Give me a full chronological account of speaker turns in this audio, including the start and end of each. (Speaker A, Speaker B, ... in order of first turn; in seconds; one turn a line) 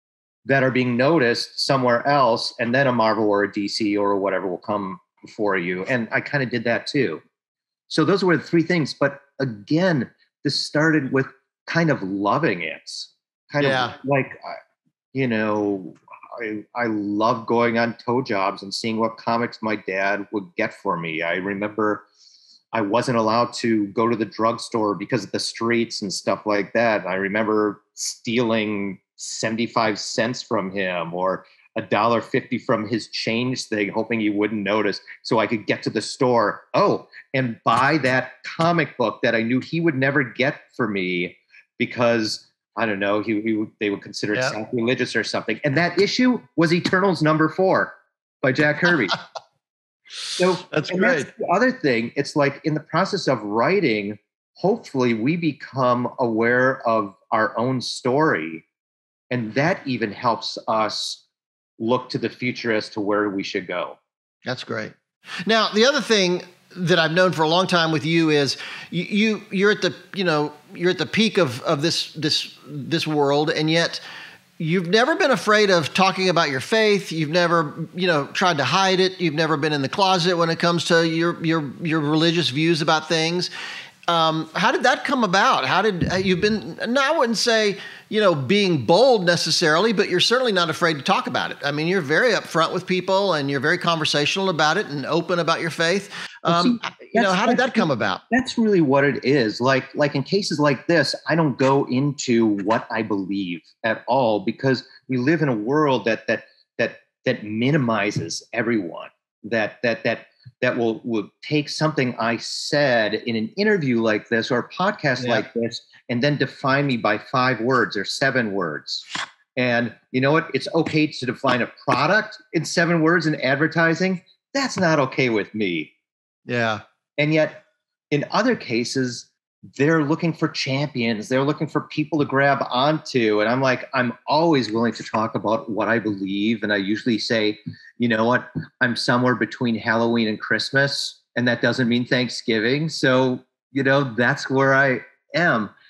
Speaker A: 0.5-7.2
Speaker A: 7.9-14.6
Speaker B: 13.6-13.9
Speaker A: 15.1-22.1
Speaker A: 22.7-49.2
Speaker A: 50.4-58.6
Speaker B: 50.7-51.3
Speaker A: 59.3-61.2
Speaker A: 61.8-64.0
Speaker B: 64.5-74.0
Speaker B: 74.6-83.5
Speaker B: 84.1-98.2
Speaker A: 96.5-125.9
Speaker B: 115.2-115.4
Speaker B: 126.5-126.8
Speaker A: 127.2-145.7